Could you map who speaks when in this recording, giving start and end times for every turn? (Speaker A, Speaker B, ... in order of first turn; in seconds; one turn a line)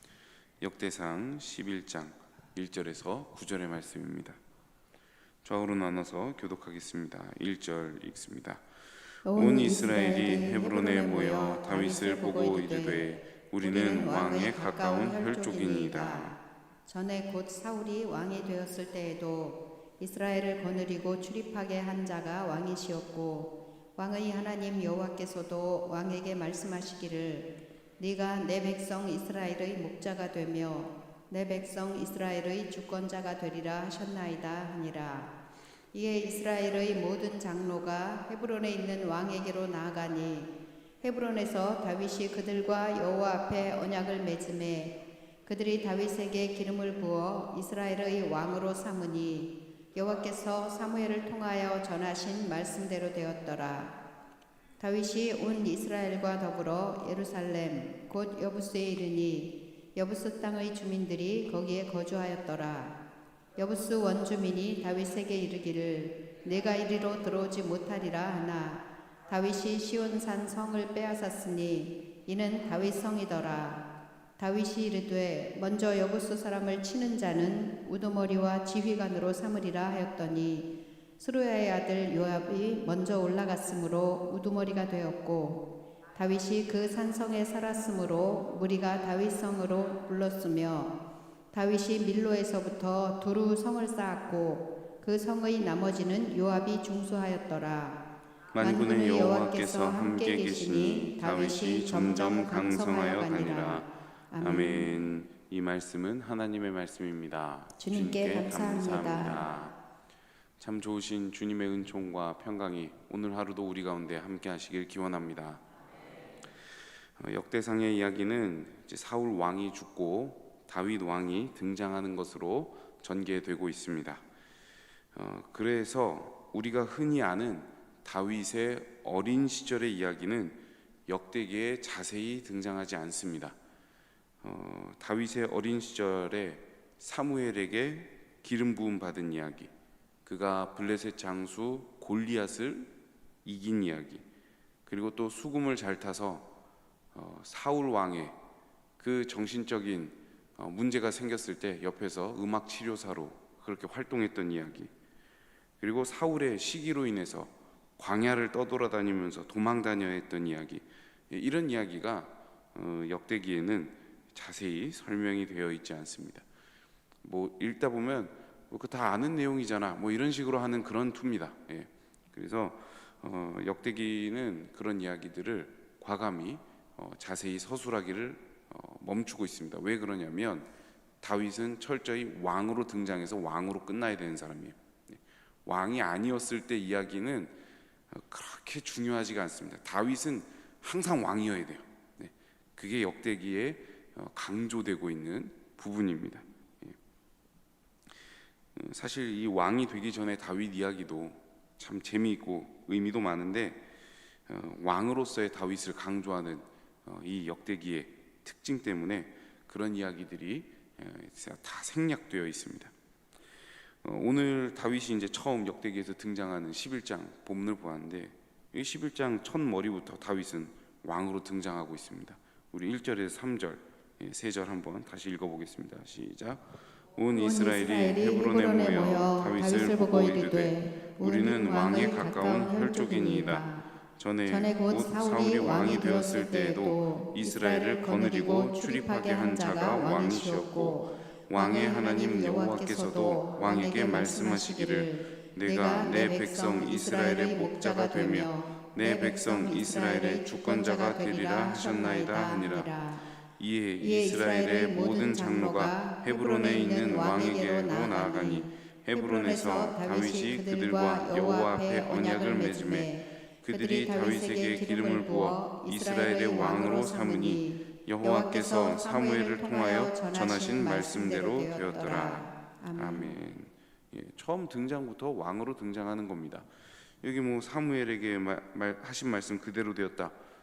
Speaker A: 0.6-4.4
Speaker A: 5.4-8.6
Speaker A: 9.2-16.4
Speaker B: 9.2-13.1
Speaker B: 13.6-16.3
Speaker B: 16.9-35.3
Speaker B: 35.9-54.0
Speaker B: 54.8-63.0
Speaker B: 63.5-73.8
Speaker B: 74.4-91.0
Speaker B: 91.5-98.0
Speaker A: 98.5-103.9
Speaker B: 98.6-104.9
Speaker A: 104.4-109.8
Speaker B: 107.8-109.5
Speaker A: 110.6-115.6
Speaker A: 117.2-124.2
Speaker A: 125.1-133.6
Speaker A: 134.4-139.7
Speaker A: 140.2-142.9
Speaker A: 143.4-144.2
Speaker A: 144.8-146.5
Speaker A: 147.1-148.4
Speaker A: 149.0-154.9
Speaker A: 155.8-166.4
Speaker A: 167.2-180.7
Speaker A: 181.2-187.6
Speaker A: 188.1-196.9
Speaker A: 198.8-203.8
Speaker A: 204.5-212.9
Speaker A: 214.0-252.9
Speaker B: 227.3-233.8
Speaker B: 234.5-253.2
Speaker A: 253.6-263.1
Speaker B: 254.0-273.4
Speaker A: 263.6-276.7
Speaker A: 277.2-280.4